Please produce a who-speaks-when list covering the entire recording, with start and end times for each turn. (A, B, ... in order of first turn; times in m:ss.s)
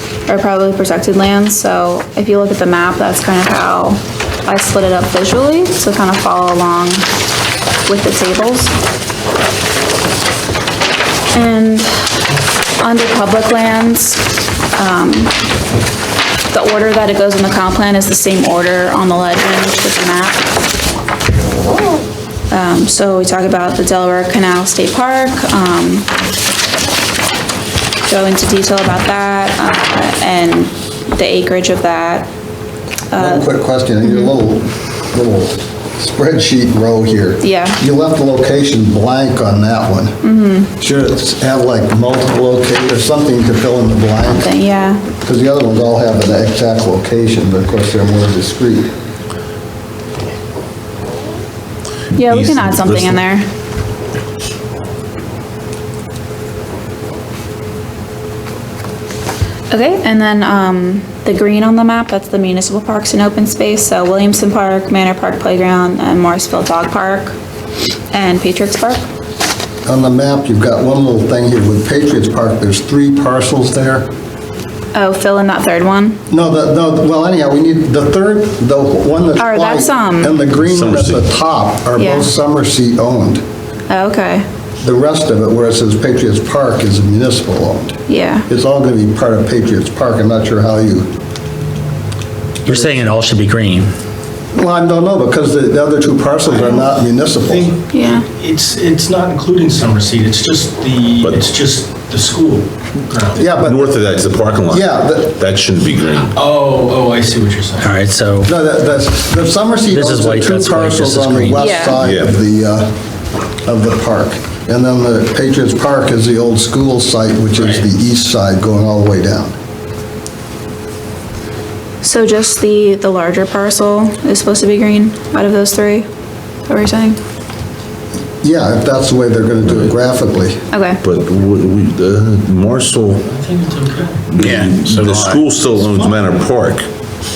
0:00.3-0:07.0 A
0:07.8-0:08.7 A
0:11.3-0:12.2 A
0:12.8-0:15.4 A
0:16.5-0:20.5 A
0:22.5-0:26.1 A
0:28.0-0:32.3 A
0:33.1-0:33.5 A
0:33.2-0:40.2 B
0:34.0-0:34.3 A
0:37.4-0:37.8 A
0:40.2-0:40.7 A
0:40.8-0:44.5 B
0:44.3-0:45.0 A
0:45.2-0:48.9 B
0:52.1-0:53.4 A
0:52.2-0:53.2 C
0:59.7-1:07.3 A
1:08.1-1:09.0 A
1:09.8-1:14.1 B
1:14.9-1:16.2 A
1:16.3-1:23.4 B
1:19.4-1:20.4 A
1:20.6-1:21.3 C
1:22.0-1:22.3 A
1:23.9-1:24.4 A
1:24.8-1:31.1 B
1:28.1-1:28.5 A
1:32.6-1:33.9 D
1:34.5-1:37.7 B
1:36.5-1:43.5 E
1:37.9-1:38.2 A
1:43.4-1:44.1 B
1:43.6-1:46.3 C
1:44.7-1:45.4 B
1:46.3-1:48.0 E
1:47.8-1:48.5 D
1:48.4-1:52.9 B
1:49.9-1:51.8 D
1:51.6-1:52.0 A
1:52.0-1:52.3 C
1:53.6-1:59.5 B
1:57.6-1:57.8 E
2:02.0-2:06.1 A
2:06.7-2:07.2 A
2:08.4-2:10.6 B
2:10.7-2:11.0 A
2:11.0-2:13.3 C
2:13.3-2:14.2 E
2:14.3-2:16.8 C
2:14.4-2:15.5 D